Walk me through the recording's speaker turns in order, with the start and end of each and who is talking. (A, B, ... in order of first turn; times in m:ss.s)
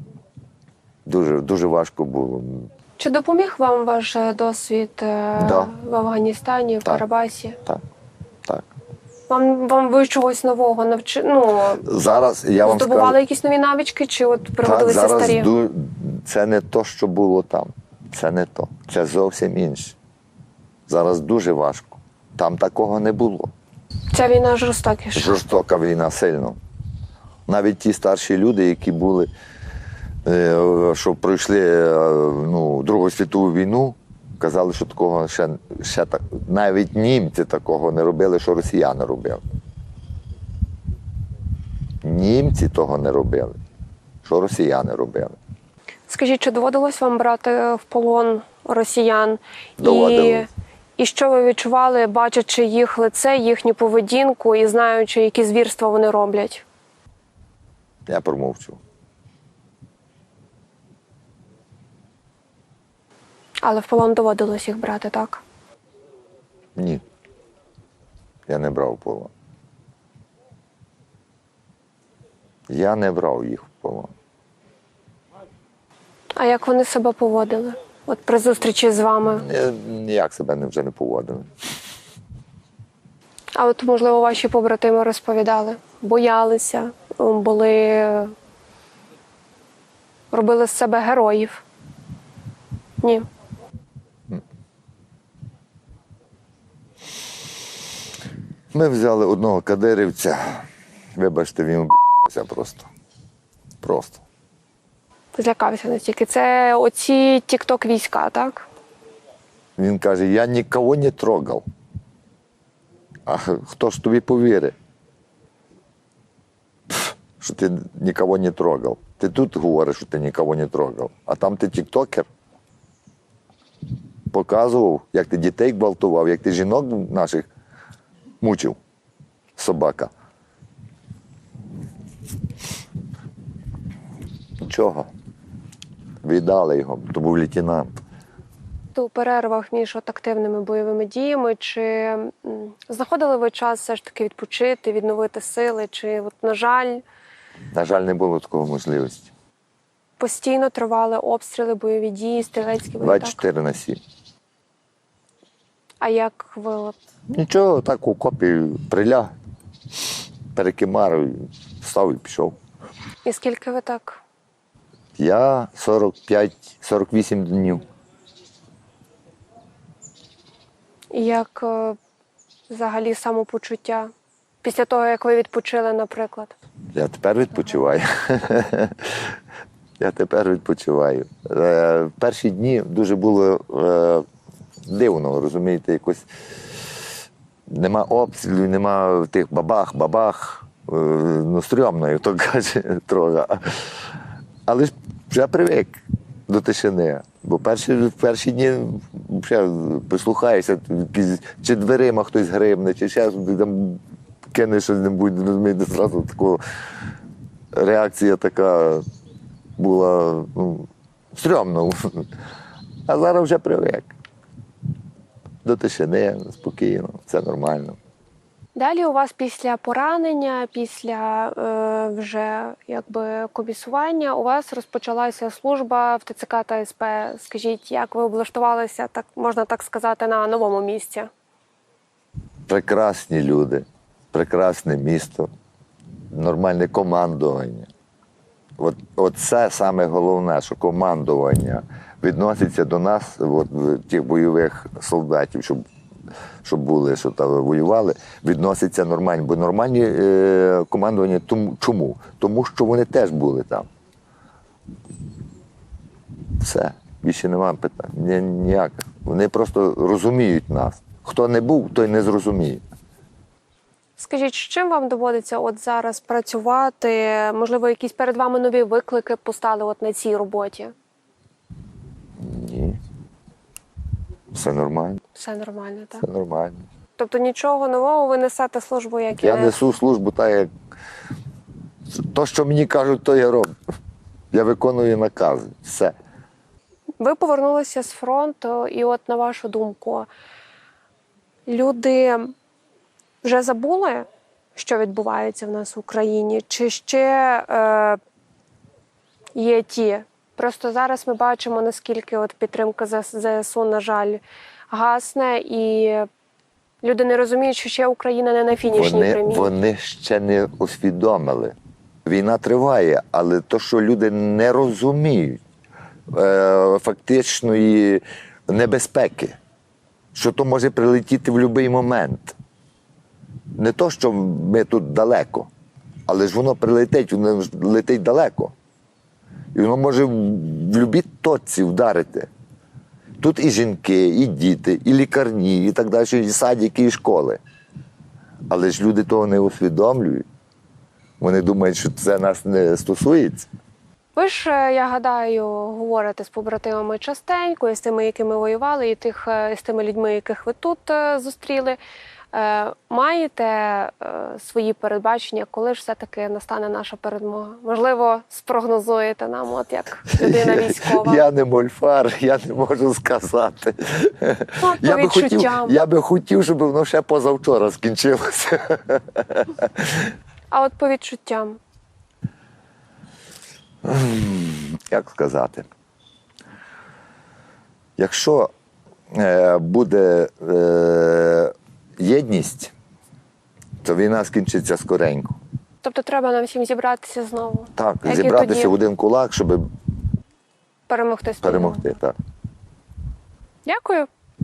0:01.1-0:02.7 A
0:03.0-0:07.6 B
0:05.4-0:05.7 A
0:09.3-0:11.9 B
0:11.8-0:13.2 A
0:12.6-0:15.5 B
0:14.6-0:20.0 A
0:20.9-0:23.5 A
0:24.1-0:25.4 B
0:25.2-0:26.6 A
0:27.5-0:29.3 A
0:30.3-0:39.4 A
0:42.0-0:43.6 A
0:44.2-0:45.4 A
0:46.1-0:56.6 B
0:49.8-0:50.5 A
0:58.1-0:58.8 A
1:03.6-1:05.4 B
1:06.8-1:07.0 A
1:08.5-1:09.3 A
1:12.7-1:14.1 A
1:16.4-1:19.4 B
1:19.3-1:21.5 A
1:23.6-1:28.3 B
1:30.3-1:31.6 B
1:33.0-1:33.3 B
1:38.7-1:40.6 A
1:41.2-1:42.9 A
1:43.8-1:44.2 A
1:45.4-1:48.7 B
1:49.8-1:51.6 A
1:53.3-1:54.8 A
1:56.9-2:02.3 A
2:04.3-2:07.5 A
2:08.4-2:08.8 A
2:09.6-2:10.1 A
2:14.6-2:15.1 A
2:16.2-2:17.9 A
2:19.0-2:27.0 B
2:27.7-2:29.3 A
2:30.2-2:33.4 B
2:33.0-2:34.0 A
2:36.0-2:37.0 B
2:37.3-2:39.3 A
2:40.5-2:42.6 A
2:43.2-2:44.2 B
2:45.2-2:47.8 A
2:51.1-2:52.0 B
2:52.7-2:54.1 B
2:54.6-2:56.5 B
2:56.9-2:59.3 A
3:00.0-3:04.2 A
3:04.9-3:06.2 A
3:07.7-3:14.0 A
3:14.7-3:24.0 A
3:24.5-3:26.6 A
3:27.7-3:29.0 A
3:29.8-3:32.2 A
3:33.1-3:34.1 A
3:35.6-3:38.0 A
3:38.8-3:51.3 B
3:52.7-3:55.5 A
3:56.3-3:57.9 A
3:58.8-4:05.8 A
4:06.6-4:13.9 A
4:16.6-4:22.8 A
4:24.2-4:30.9 B
4:32.4-4:33.0 A
4:34.5-4:35.2 A
4:35.3-4:36.2 B
4:36.2-4:36.8 A
4:37.2-4:39.8 B
4:39.4-4:40.7 A
4:42.1-4:43.7 A
4:44.5-4:46.1 A
4:47.2-4:50.3 B
4:51.7-4:52.5 B
4:53.4-4:58.2 B
4:59.6-5:06.3 B
5:07.0-5:09.7 B
5:08.9-5:11.8 A
5:12.3-5:15.6 A
5:16.3-5:19.6 A
5:20.3-5:22.6 A
5:23.8-5:25.7 A
5:26.3-5:28.7 A
5:29.7-5:32.5 A
5:33.4-5:37.6 A
5:38.7-5:40.4 A
5:41.4-5:43.7 A
5:44.4-5:52.0 B
5:52.5-6:01.4 B
6:00.3-6:10.3 A
6:04.8-6:06.0 B
6:10.7-6:11.8 B
6:14.0-6:15.9 A
6:18.2-6:18.7 A
6:19.3-6:22.9 A
6:24.0-6:25.6 A
6:26.0-6:29.0 B
6:28.0-6:29.9 A
6:31.1-6:32.0 B
6:31.6-6:32.4 A
6:33.8-6:34.3 B